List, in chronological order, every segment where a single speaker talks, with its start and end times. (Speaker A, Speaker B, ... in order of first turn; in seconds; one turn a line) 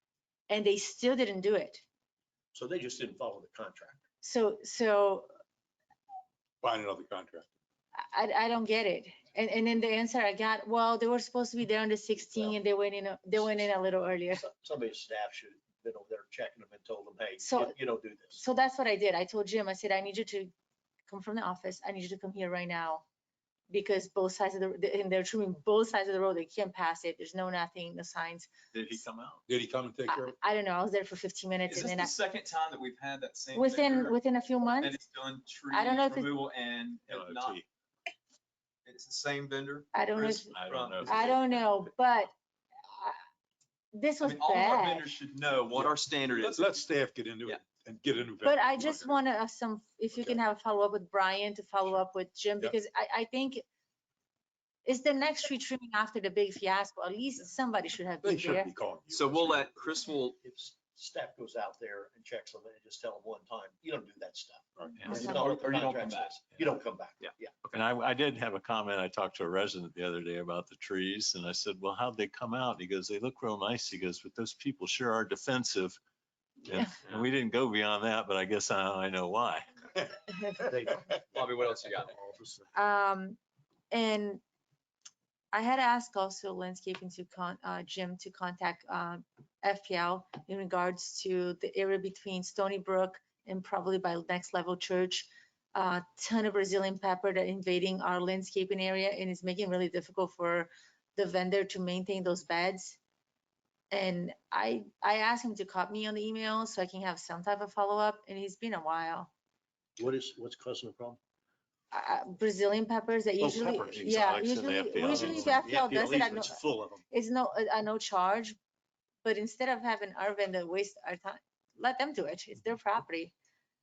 Speaker A: 0.5-1.8
Speaker B: 2.5-4.0
Speaker A: 4.2-5.3
Speaker C: 6.6-7.5
Speaker A: 8.0-14.4
Speaker B: 12.3-12.5
Speaker B: 14.3-18.4
Speaker A: 17.4-17.8
Speaker A: 18.3-20.5
Speaker A: 21.1-23.0
Speaker A: 23.7-29.0
Speaker D: 28.7-29.4
Speaker C: 29.5-30.4
Speaker A: 30.1-32.1
Speaker E: 31.6-34.2
Speaker A: 33.5-35.0
Speaker E: 34.8-37.6
Speaker A: 35.7-36.3
Speaker D: 37.1-37.6
Speaker E: 38.9-41.4
Speaker A: 39.9-42.3
Speaker D: 40.5-41.8
Speaker A: 42.9-43.2
Speaker A: 43.9-45.1
Speaker E: 44.2-46.7
Speaker C: 45.7-49.2
Speaker A: 48.4-53.6
Speaker A: 54.9-58.7
Speaker C: 58.2-59.7
Speaker E: 59.1-60.4
Speaker B: 60.4-67.5
Speaker C: 64.8-65.0
Speaker E: 65.0-66.4
Speaker A: 65.0-65.4
Speaker E: 67.2-67.8
Speaker D: 67.7-76.0
Speaker D: 76.6-79.7
Speaker B: 80.6-82.7
Speaker E: 81.3-82.1
Speaker A: 82.7-83.4
Speaker A: 83.9-84.4
Speaker A: 85.5-103.0
Speaker A: 103.9-109.3
Speaker B: 110.0-111.2
Speaker A: 111.9-118.5
Speaker B: 113.4-114.1
Speaker D: 113.9-115.7
Speaker B: 115.0-117.0
Speaker A: 119.2-123.3